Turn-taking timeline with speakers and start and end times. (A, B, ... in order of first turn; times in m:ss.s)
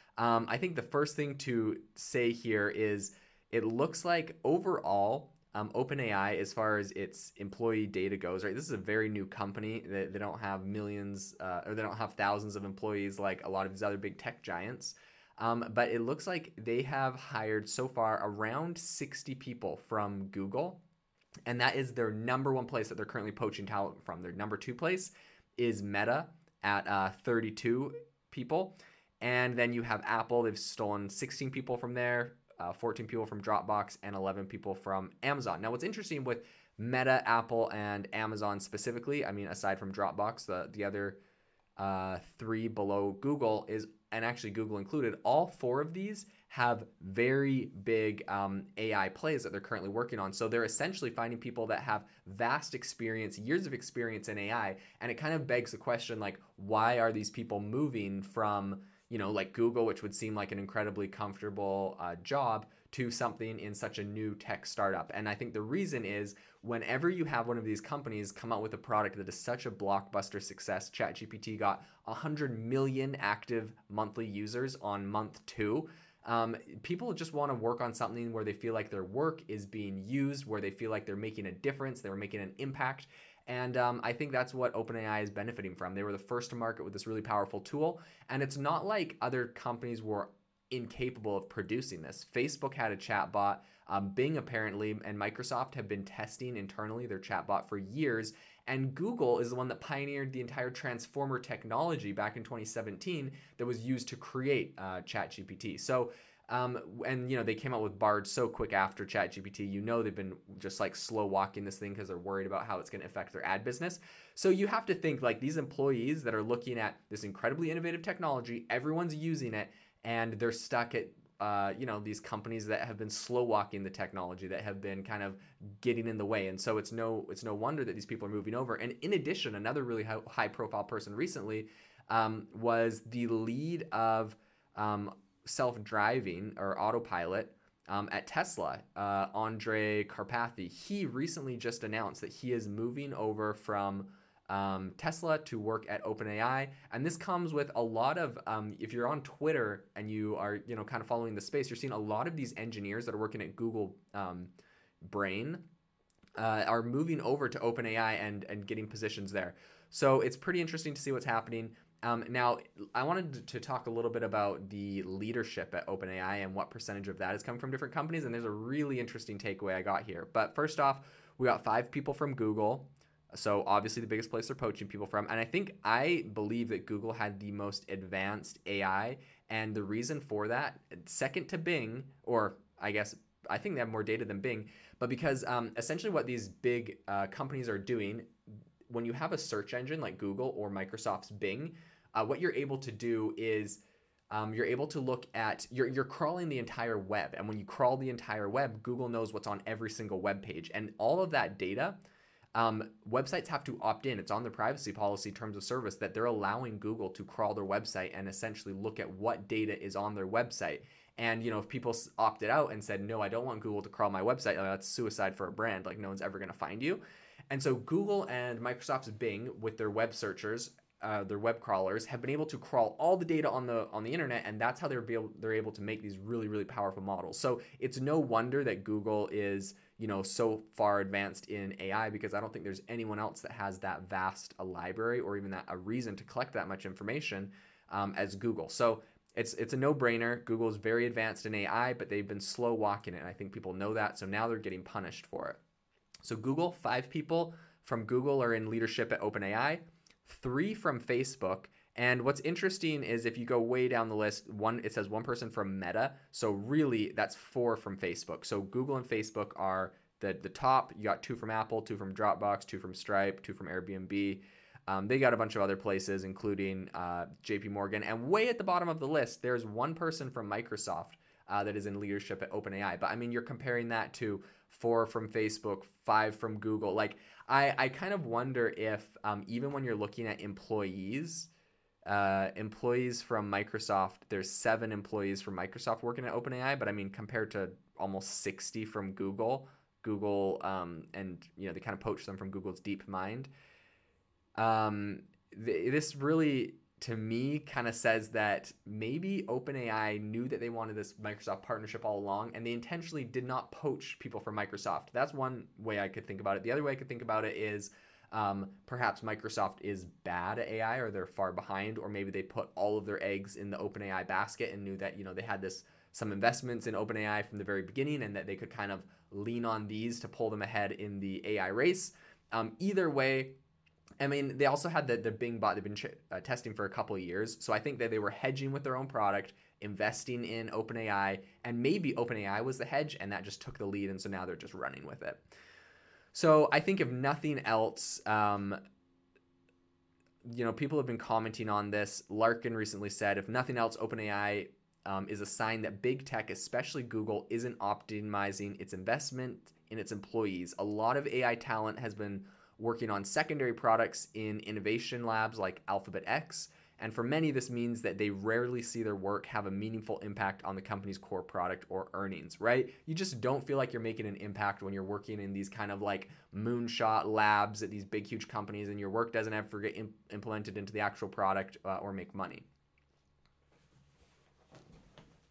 0:00.2-0:20.8 A
0:21.5-0:41.2 A
0:41.8-2:34.5 A
2:35.0-2:35.6 A
2:36.4-3:08.3 A
3:08.9-3:22.0 A
3:22.6-4:05.6 A
4:06.2-4:41.5 A
4:42.1-4:53.5 A
4:54.6-5:23.6 A
5:24.2-5:35.4 A
5:36.3-5:38.8 A
5:40.4-6:12.7 A